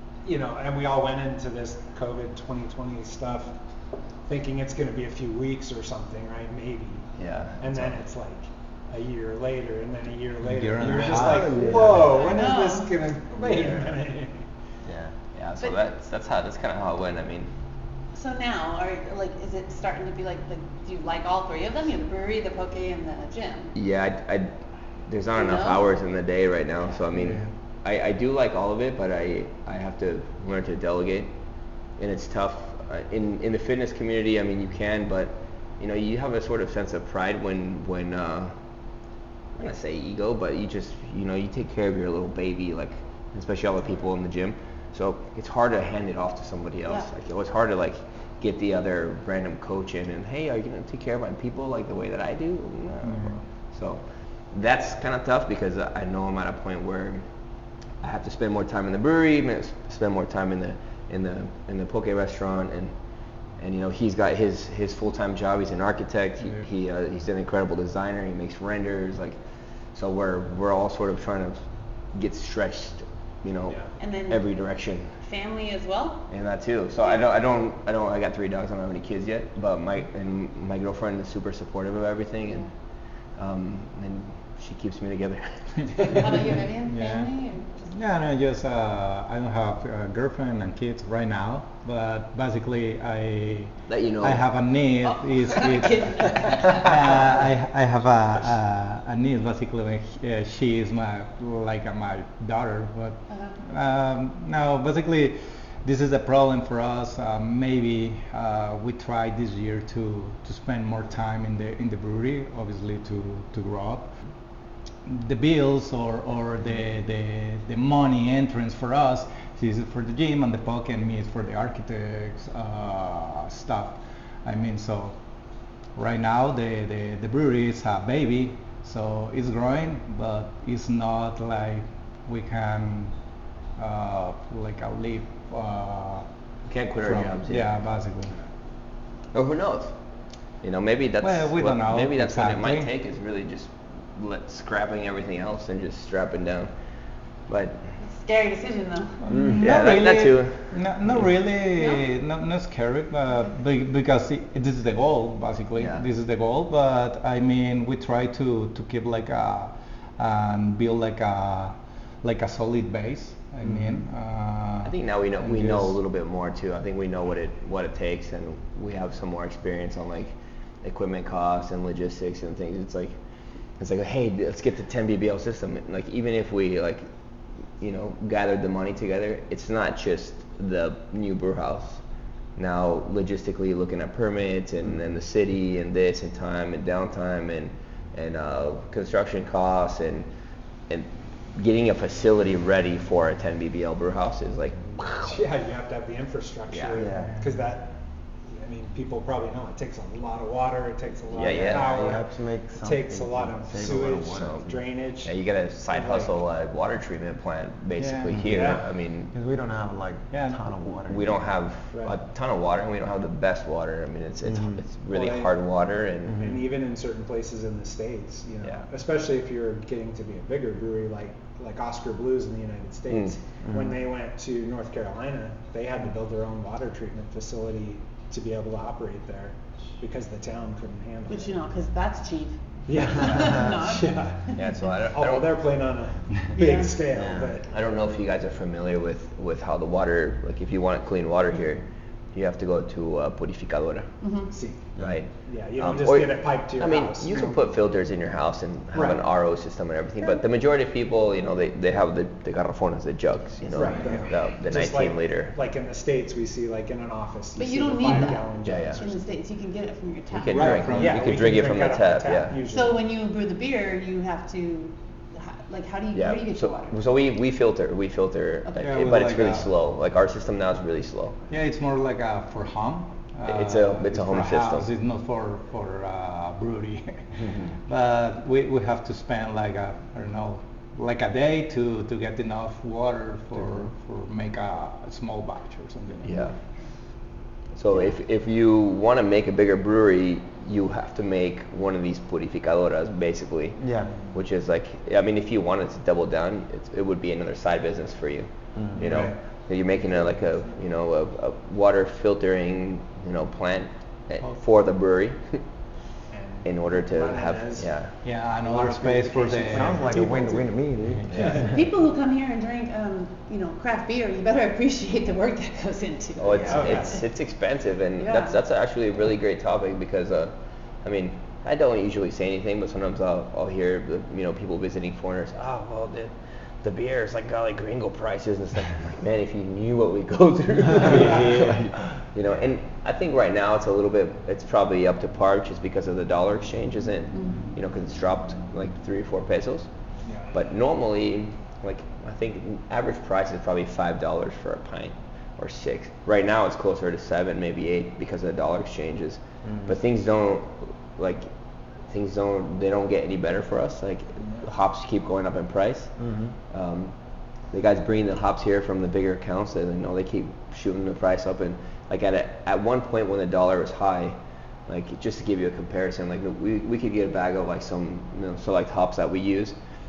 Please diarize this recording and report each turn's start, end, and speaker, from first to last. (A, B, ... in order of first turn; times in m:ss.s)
0:00.2-0:03.6 A
0:04.2-0:14.4 A
0:07.2-0:08.0 B
0:10.4-0:12.0 C
0:11.1-0:12.3 D
0:12.1-0:12.9 E
0:13.4-0:13.9 D
0:14.8-0:15.1 D
0:15.3-0:17.5 B
0:18.1-0:23.7 E
0:23.7-0:24.5 B
0:25.0-0:31.3 B
0:25.4-0:26.0 E
0:27.1-0:27.5 C
0:32.0-0:38.6 B
0:39.5-0:57.3 B
0:53.0-0:53.4 C
0:58.0-1:03.0 B
1:03.6-1:09.4 B
1:09.9-1:15.1 B
1:14.0-1:14.4 E
1:15.2-1:16.2 E
1:16.3-1:22.7 B
1:23.3-1:26.2 B
1:26.0-1:26.2 C
1:26.1-1:27.9 E
1:26.8-1:54.3 C
1:33.9-1:34.4 B
1:35.1-1:37.2 E
1:43.3-1:43.6 E
1:55.0-2:13.2 C
2:13.7-2:16.3 C
2:16.6-2:17.7 B
2:17.0-2:18.3 C
2:19.3-2:20.0 B
2:20.6-2:26.7 B
2:21.2-2:22.9 C
2:27.5-2:27.9 B
2:28.0-2:29.2 E
2:29.2-2:46.0 C
2:29.3-2:29.6 D
2:29.6-2:31.3 B
2:31.8-2:32.0 E
2:35.8-2:36.0 B
2:43.6-2:44.0 B
2:44.8-2:53.1 B
2:53.8-2:57.0 B
2:57.8-3:02.0 B
3:02.6-3:10.3 B
3:10.9-3:15.4 B
3:15.2-3:25.3 A
3:16.7-3:17.1 B
3:17.0-3:17.4 D
3:17.1-3:17.6 C
3:21.3-3:22.1 B
3:21.4-3:24.8 D
3:24.3-3:29.3 B
3:25.9-3:26.4 A
3:28.0-3:28.4 C
3:28.3-3:31.5 D
3:28.4-3:28.8 A
3:30.3-3:30.6 C
3:31.1-3:36.5 B
3:31.9-3:32.2 A
3:34.5-3:34.8 D
3:35.2-3:35.5 A
3:35.2-3:35.5 C
3:36.3-3:36.6 D
3:36.3-3:51.6 A
3:38.6-3:38.9 B
3:43.1-3:43.4 B
3:43.6-3:44.0 D
3:51.3-3:54.6 E
3:52.9-3:57.7 A
3:53.0-3:53.8 D
3:54.5-3:55.6 B
3:56.5-3:57.0 E
3:57.1-3:57.6 D
3:57.7-4:04.2 B
4:04.2-4:04.5 E
4:04.5-4:07.6 A
4:05.0-4:15.5 B
4:08.9-4:09.2 A
4:13.7-4:19.2 A
4:13.8-4:14.3 D
4:17.6-4:20.7 E
4:18.2-4:19.0 B
4:20.3-4:22.6 B
4:20.5-4:21.7 C
4:20.5-4:23.0 A
4:22.7-4:27.0 E
4:26.1-4:31.4 B
4:28.8-4:29.7 C
4:31.5-4:46.4 C
4:33.4-4:34.9 B
4:37.4-4:37.7 D
4:46.2-4:46.5 B
4:47.7-5:05.6 B
4:47.9-4:48.2 E
4:53.8-4:54.1 D
4:54.1-4:54.3 A
4:58.7-4:59.2 D
4:59.0-4:59.4 C
4:59.9-5:00.8 A
5:06.3-5:10.8 A
5:06.6-5:08.2 B
5:08.2-5:10.1 C
5:09.7-5:11.8 D
5:11.0-5:11.7 C
5:11.3-5:11.7 B
5:11.3-5:11.7 A
5:11.6-5:17.2 E
5:16.4-5:39.9 B
5:16.7-5:17.2 A
5:18.2-5:18.6 E
5:31.0-5:31.9 C
5:37.3-5:37.7 E
5:40.2-5:40.6 A
5:40.5-5:51.5 B
5:49.6-5:50.0 D
5:52.0-5:56.1 B
5:54.4-5:54.6 A
5:56.2-5:56.5 D
5:56.7-5:57.1 B
5:57.7-6:09.8 B